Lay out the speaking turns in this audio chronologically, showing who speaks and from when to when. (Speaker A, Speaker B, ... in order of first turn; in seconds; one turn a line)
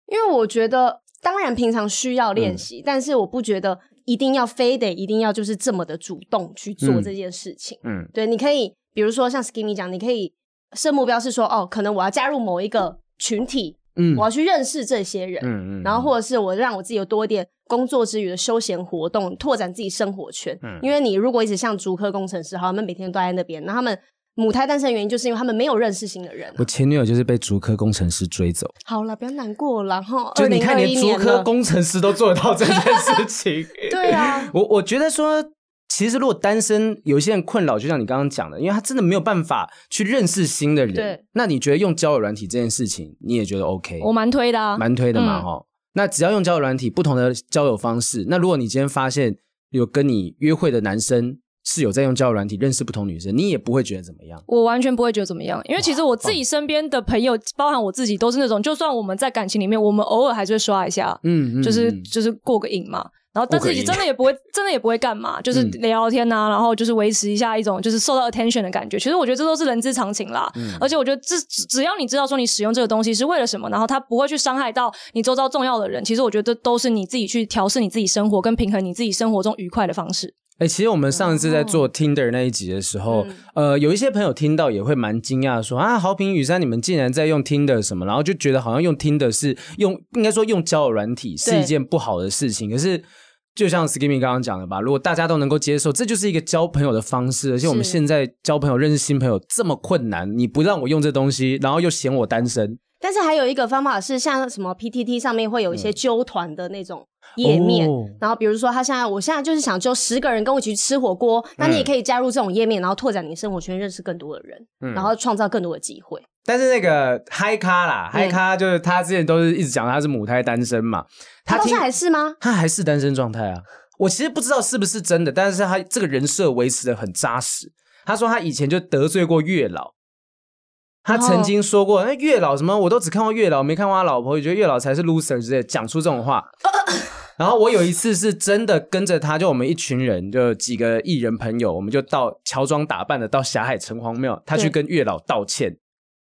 Speaker A: 0.1-26.7
Speaker B: 2.4-2.6
Speaker B: 6.8-7.1
Speaker B: 7.8-8.1
Speaker B: 13.9-14.2
Speaker B: 15.4-16.1
Speaker B: 26.6-28.7
Speaker A: 28.9-31.5
Speaker B: 30.4-44.1
Speaker A: 33.9-34.5
Speaker A: 40.9-41.2
Speaker C: 44.0-45.5
Speaker B: 44.8-54.4
Speaker C: 54.5-80.3
Speaker B: 55.8-56.4
Speaker B: 61.2-62.1
Speaker B: 63.5-64.0
Speaker B: 70.6-70.8
Speaker B: 80.6-102.8
Speaker A: 81.1-81.8
Speaker A: 83.1-83.4
Speaker A: 91.4-91.7
Speaker A: 97.6-98.0
Speaker A: 103.0-116.2
Speaker B: 107.4-108.2
Speaker B: 111.6-111.9
Speaker B: 114.8-115.1
Speaker B: 116.4-121.8
Speaker A: 121.5-122.4
Speaker B: 122.4-129.9
Speaker B: 131.1-136.5
Speaker A: 131.1-131.5
Speaker B: 137.4-145.8